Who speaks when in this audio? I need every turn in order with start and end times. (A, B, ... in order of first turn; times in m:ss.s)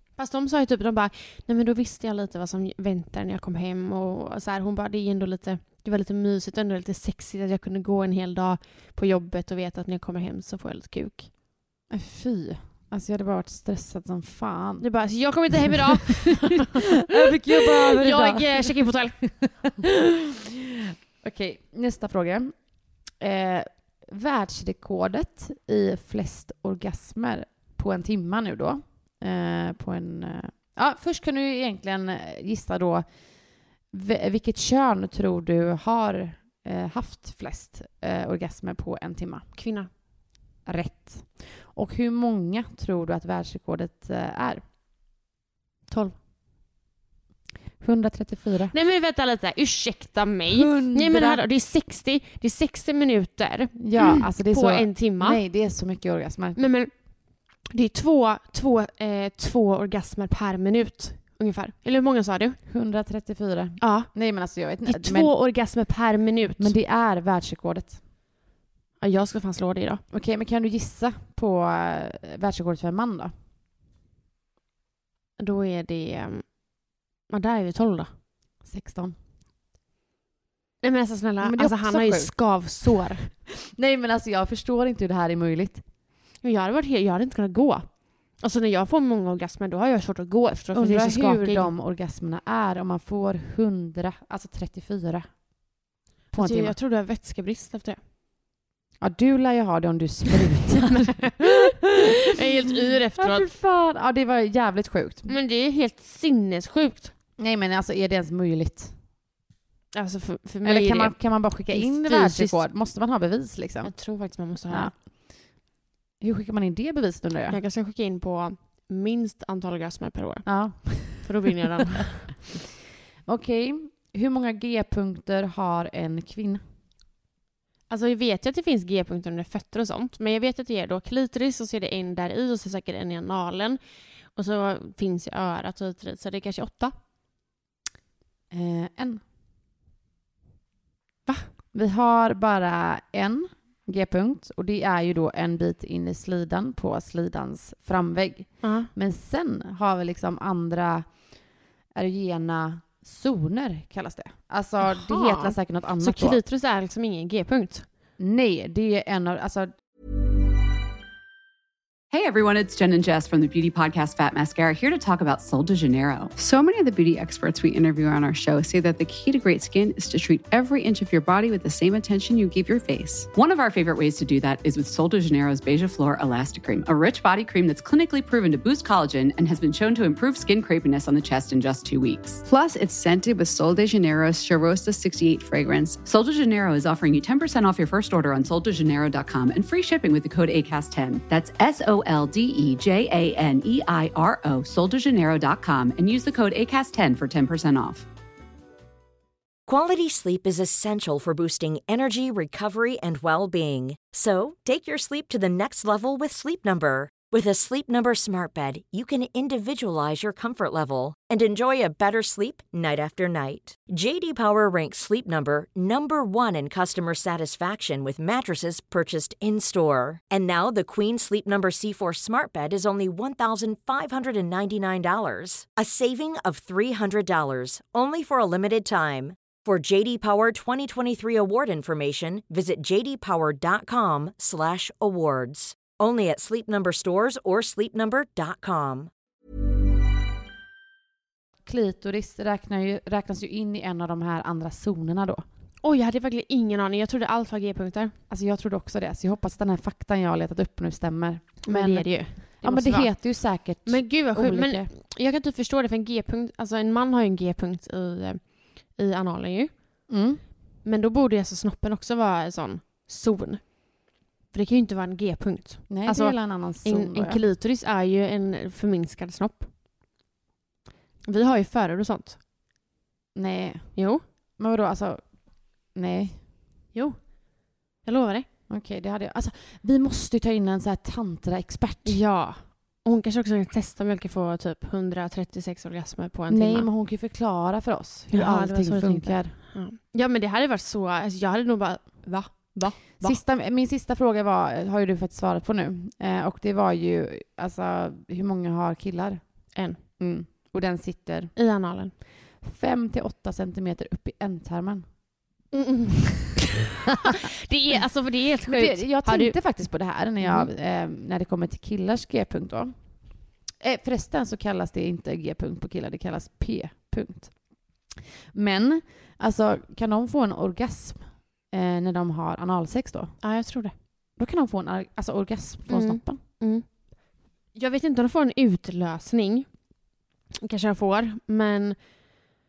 0:00.2-0:11.3 A
0:11.9-0:14.9 B
0:14.8-0:17.0 A
0:17.0-0:20.1 B
0:17.5-0:19.5 A
0:20.7-0:22.7 B
0:23.2-0:33.1 B
0:33.9-0:39.5 B
0:39.6-0:39.9 A
0:40.6-0:44.6 B
0:45.9-0:46.2 A
0:47.8-0:48.7 B
0:48.7-0:55.4 A
0:50.5-0:51.4 B
0:53.8-0:56.6 B
0:56.6-0:56.9 A
0:57.6-1:02.6 A
1:02.7-1:05.3 B
1:03.8-1:06.8 A
1:06.6-1:08.0 B
1:09.0-1:10.0 A
1:10.1-1:13.3 B
1:15.4-1:18.1 A
1:18.6-1:19.2 B
1:20.8-1:23.3 A
1:21.4-1:22.3 B
1:22.8-1:25.8 B
1:26.4-1:31.7 A
1:30.7-1:35.4 B
1:36.3-1:36.8 B
1:36.3-1:38.0 A
1:39.0-1:41.6 B
1:41.0-1:43.5 A
1:43.2-1:45.4 B
1:45.3-1:47.1 A
1:47.4-1:49.0 B
1:49.9-1:52.7 A
1:50.6-1:54.0 B
1:53.8-1:55.0 A
1:56.2-1:57.6 B
1:57.5-2:02.5 A
2:00.5-2:01.3 B
2:03.3-2:06.6 B
2:07.9-2:13.8 A
2:14.4-2:16.9 A
2:18.5-2:19.2 B
2:21.7-2:31.3 B
2:28.6-2:28.9 A
2:31.9-2:36.4 B
2:34.8-2:37.9 A
2:38.2-2:39.7 B
2:42.1-2:46.4 C
2:46.4-2:53.3 D
2:53.3-3:02.5 C
3:02.4-3:06.0 D
3:06.0-3:18.1 C
3:19.7-3:59.1 E
4:01.7-4:05.4 B
4:05.8-4:08.2 A
4:08.3-4:14.9 B
4:11.6-4:19.7 A
4:20.1-4:20.4 B
4:20.8-4:29.7 A
4:25.9-4:27.4 B
4:31.2-4:32.4 A
4:33.4-4:34.0 B
4:34.0-4:34.2 A
4:34.6-4:36.4 B
4:36.9-4:38.5 A
4:38.7-4:42.2 B
4:42.0-4:46.9 A
4:46.5-4:49.6 B
4:48.3-4:53.4 A
4:53.2-4:59.4 B
5:00.2-5:01.5 B
5:01.6-5:02.2 A
5:02.6-5:05.1 B
5:05.7-5:09.6 A
5:08.7-5:12.9 B
5:10.4-5:10.7 A
5:13.8-5:17.6 B
5:18.5-5:23.4 B
5:23.4-5:23.9 A
5:24.4-5:26.4 B
5:25.9-5:26.9 A
5:27.7-5:29.7 A
5:30.6-5:32.0 A